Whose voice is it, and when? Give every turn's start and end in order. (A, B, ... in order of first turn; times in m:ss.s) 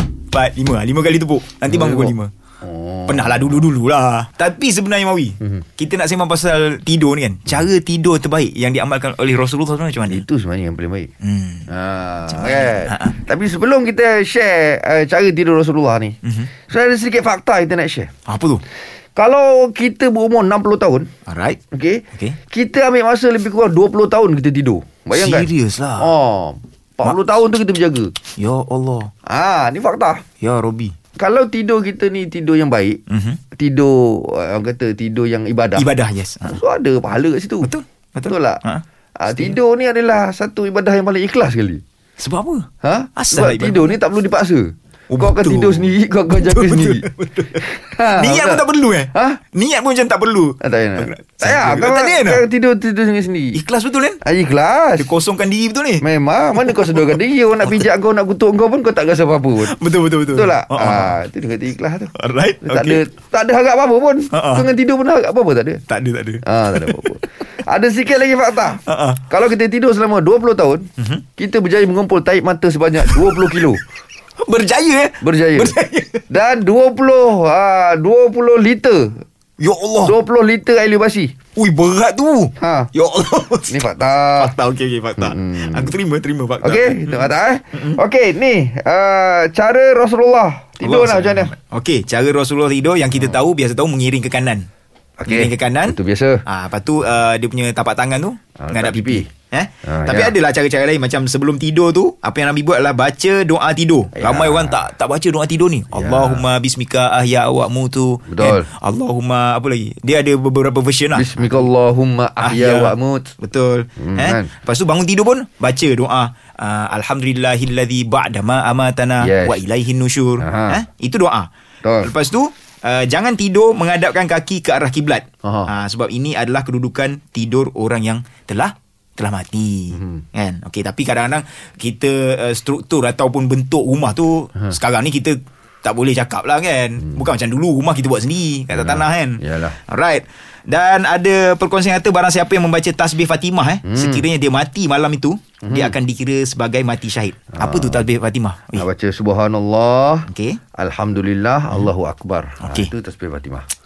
0:00.3-0:02.3 A
0:01.7-0:03.6 B
0:03.1-0:10.2 A
0:10.1-0:11.1 B
0:11.2-0:11.7 A
0:11.7-0:16.2 B
0:12.3-0:13.2 A
0:16.2-0:16.5 A
0:16.7-0:18.1 B
0:18.3-0:18.6 A
0:19.2-0:21.1 B
0:21.3-0:21.6 A
0:21.7-0:28.1 B
0:25.1-0:26.1 A
0:28.4-0:29.1 A
0:29.2-0:30.2 B
0:30.4-0:30.9 A
0:31.2-0:33.0 B
0:33.1-0:33.4 A
0:33.5-0:35.9 B
0:35.8-0:36.6 A
0:36.4-0:37.7 B
0:37.6-0:38.8 A
0:38.2-0:38.6 B
0:39.2-0:41.8 B
0:42.2-0:43.9 A
0:42.8-0:49.4 B
0:45.1-0:52.4 A
0:50.6-0:53.6 B
0:53.5-0:54.2 A
0:54.2-0:55.1 B
0:55.0-0:56.0 A
0:56.0-0:59.7 B
0:56.6-0:57.8 A
0:59.6-1:01.1 A
1:00.3-1:02.1 B
1:02.1-1:03.0 A
1:02.6-1:05.8 B
1:04.3-1:04.7 A
1:05.9-1:07.2 A
1:06.4-1:13.8 B
1:08.7-1:09.3 A
1:11.0-1:11.2 A
1:13.0-1:13.6 A
1:14.4-1:16.2 A
1:15.2-1:15.8 B
1:16.3-1:19.2 B
1:19.6-1:20.1 A
1:20.0-1:21.3 B
1:21.6-1:28.0 A
1:22.6-1:22.9 B
1:23.7-1:24.5 B
1:25.2-1:25.9 B
1:26.6-1:31.5 B
1:30.8-1:34.7 A
1:35.2-1:36.4 B
1:35.3-1:51.6 A
1:38.6-1:39.3 B
1:39.8-1:40.3 B
1:44.2-1:44.8 B
1:45.9-1:46.5 B
1:48.3-1:48.7 B
1:51.1-1:53.3 B
1:52.4-2:01.5 A
1:54.0-1:54.5 B
1:59.2-1:59.6 B
2:00.4-2:00.8 B
2:01.8-2:02.1 B
2:02.0-2:28.8 A
2:05.4-2:05.7 B
2:09.9-2:10.2 B
2:18.7-2:19.8 B
2:23.8-2:24.2 B
2:25.6-2:25.9 B
2:27.5-2:28.0 B
2:28.7-2:33.6 B
2:30.3-2:30.6 A
2:32.6-2:32.9 A